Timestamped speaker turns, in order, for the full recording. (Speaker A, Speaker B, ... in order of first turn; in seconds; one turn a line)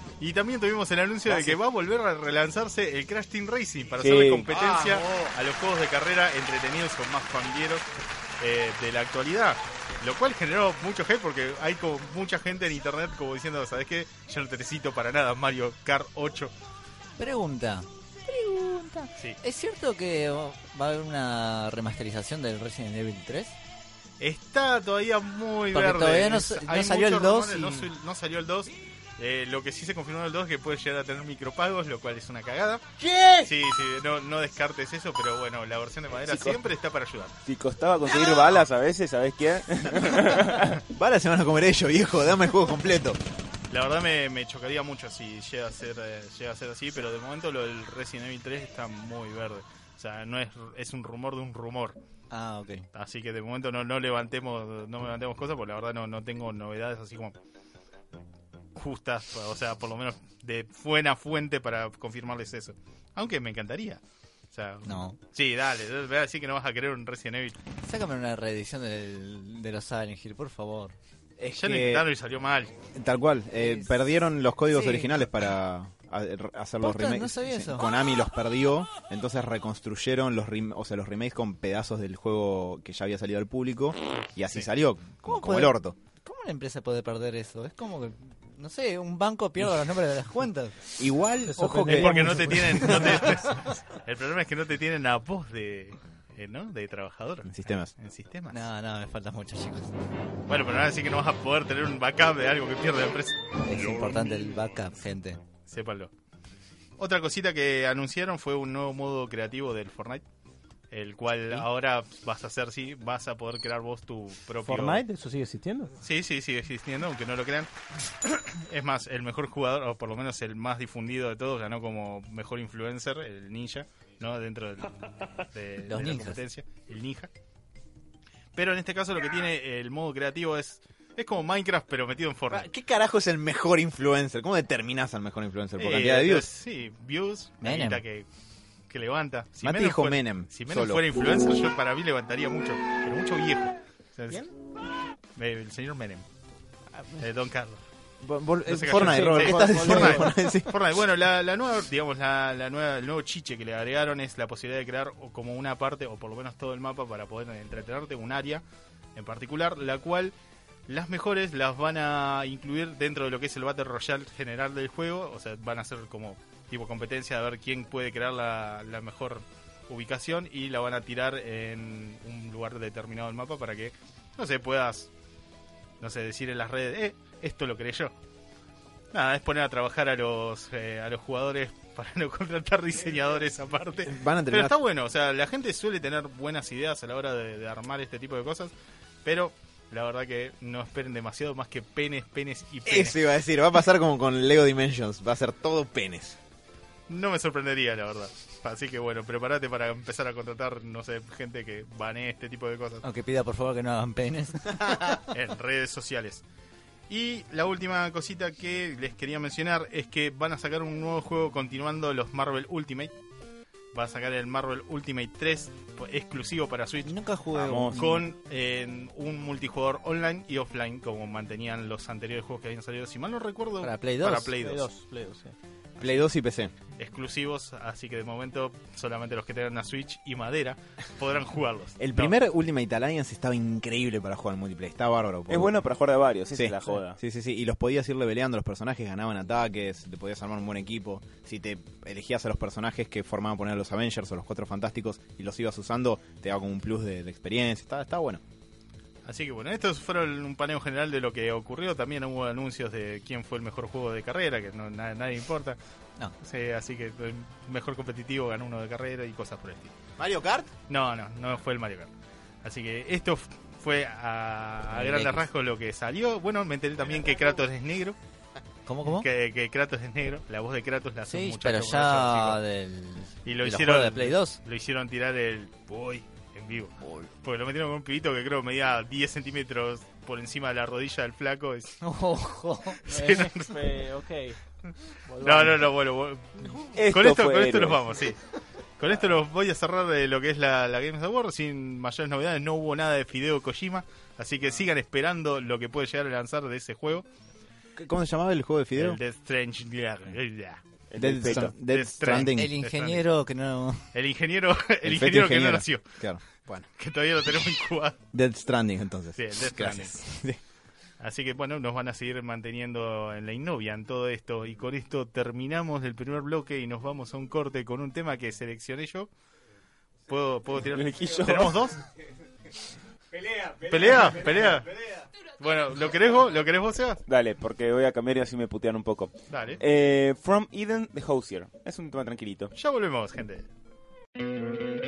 Speaker A: 0.2-7.8
Speaker B: 4.0-4.5
Speaker C: 4.5-5.3
Speaker A: 8.4-16.5
Speaker D: 17.2-23.6
Speaker A: 24.2-32.9
Speaker D: 25.7-27.9
Speaker A: 33.4-37.4
Speaker B: 36.2-36.6
Speaker B: 37.5-40.8
Speaker C: 40.7-43.2
Speaker A: 43.7-52.0
Speaker D: 52.3-52.9
Speaker A: 52.9-57.3
Speaker A: 58.7-64.0
Speaker A: 64.5-67.6
Speaker D: 64.8-65.2
Speaker D: 67.8-70.9
Speaker C: 71.4-72.1
Speaker A: 71.6-72.7
Speaker C: 72.9-86.0
Speaker D: 73.6-74.0
Speaker D: 74.7-75.1
Speaker D: 76.8-77.9
Speaker D: 85.3-90.9
Speaker C: 91.0-92.4
Speaker E: 91.4-93.4
Speaker A: 91.9-98.6
Speaker C: 97.4-97.9
Speaker D: 98.5-99.9
Speaker A: 100.5-103.4
Speaker D: 103.6-105.4
Speaker A: 105.7-106.1
Speaker A: 107.0-110.2
Speaker A: 110.9-115.0
Speaker E: 114.6-115.9
Speaker A: 116.0-117.7
Speaker A: 118.2-127.3
Speaker D: 125.8-126.4
Speaker A: 128.5-132.7
Speaker C: 132.5-136.5
Speaker A: 135.8-138.3
Speaker D: 137.6-138.0
Speaker A: 138.9-144.4
Speaker C: 139.6-141.0
Speaker A: 145.3-146.2
Speaker A: 147.2-147.8
Speaker C: 148.2-150.7
Speaker A: 148.7-158.6
Speaker E: 148.8-150.3
Speaker A: 159.2-160.3
Speaker A: 160.9-175.1
Speaker A: 176.0-178.1
Speaker A: 179.1-188.7
Speaker C: 184.1-184.8
Speaker A: 189.2-193.2
Speaker C: 192.9-196.4
Speaker A: 197.1-203.0
Speaker D: 203.0-205.2
Speaker A: 205.1-206.4
Speaker A: 207.1-213.1
Speaker A: 213.9-217.1
Speaker D: 217.0-218.2
Speaker B: 217.5-218.2
Speaker A: 217.9-224.9
Speaker D: 223.8-224.5
Speaker E: 224.6-225.6
Speaker C: 226.0-226.7
Speaker A: 227.0-232.3
Speaker C: 232.0-235.8
Speaker B: 235.5-237.2
Speaker C: 236.5-248.4
Speaker A: 249.2-255.8
Speaker A: 256.4-259.9
Speaker C: 260.2-260.7
Speaker A: 260.9-262.1
Speaker A: 262.6-268.1
Speaker D: 264.9-265.5
Speaker D: 268.9-269.3
Speaker A: 269.0-272.6
Speaker D: 271.2-274.6
Speaker A: 273.4-282.0
Speaker D: 282.0-283.0
Speaker A: 283.1-283.9
Speaker E: 283.1-284.6
Speaker E: 285.3-285.9
Speaker A: 285.4-288.4
Speaker B: 286.9-288.0
Speaker A: 289.0-297.2
Speaker C: 298.0-299.2
Speaker A: 298.9-300.8
Speaker B: 301.1-301.7
Speaker C: 301.2-302.7
Speaker A: 301.5-303.2
Speaker D: 302.3-304.1
Speaker A: 304.1-306.0
Speaker C: 305.0-306.9
Speaker A: 307.0-308.1
Speaker C: 308.3-310.6
Speaker A: 309.4-310.2
Speaker A: 311.2-319.3
Speaker A: 320.3-322.0
Speaker B: 320.9-321.7
Speaker A: 323.8-325.0
Speaker A: 325.6-327.2
Speaker B: 327.3-332.7
Speaker A: 329.5-329.8
Speaker A: 332.7-333.7